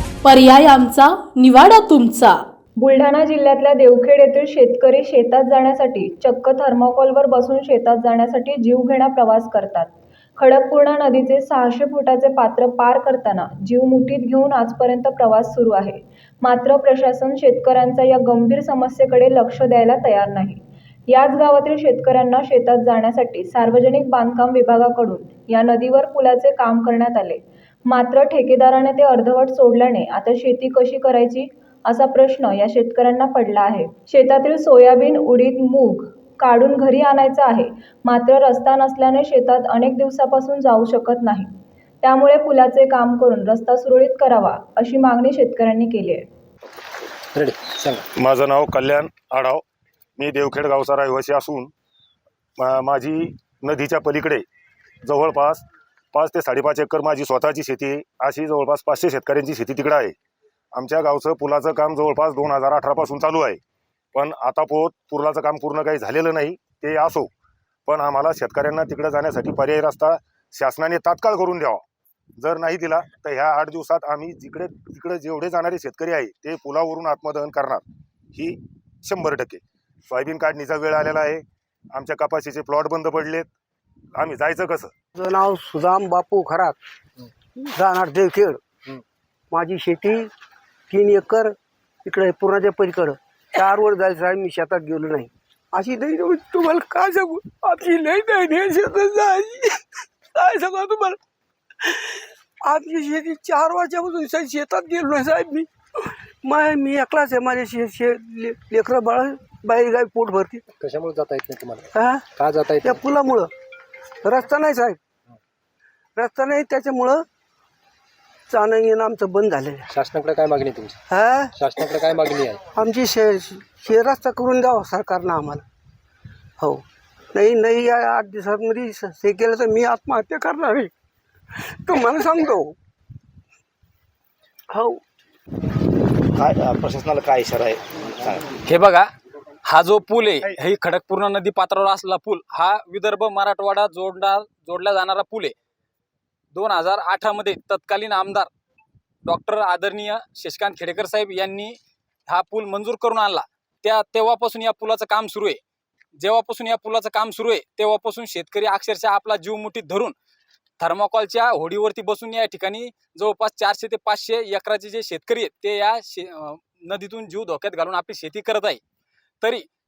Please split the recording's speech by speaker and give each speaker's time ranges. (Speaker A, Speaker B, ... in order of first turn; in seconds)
Speaker A: 0.2-2.5
Speaker B: 2.8-41.5, 42.0-46.3
Speaker C: 47.4-48.0, 110.7-113.0, 119.9-121.0, 121.5-122.6
Speaker D: 48.2-49.6, 50.2-51.7, 52.6-54.4, 55.1-60.1, 60.7-63.6, 64.1-67.3, 67.9-71.8, 72.4-83.5, 84.1-84.9
Speaker E: 85.2-86.8, 87.6-88.6, 89.5-90.3, 90.9-99.8, 100.3-101.2, 101.8-110.6, 112.0-112.3, 112.8-113.5, 114.2-115.0, 116.2-117.2, 118.5-119.9, 121.1-121.5, 122.7-125.7, 127.3-130.9, 131.6-132.8, 134.7-135.0
Speaker F: 136.4-138.4
Speaker G: 138.7-139.1, 139.7-145.5, 146.5-148.5, 149.2-155.6, 156.2-160.2, 160.8-168.8, 169.4-169.7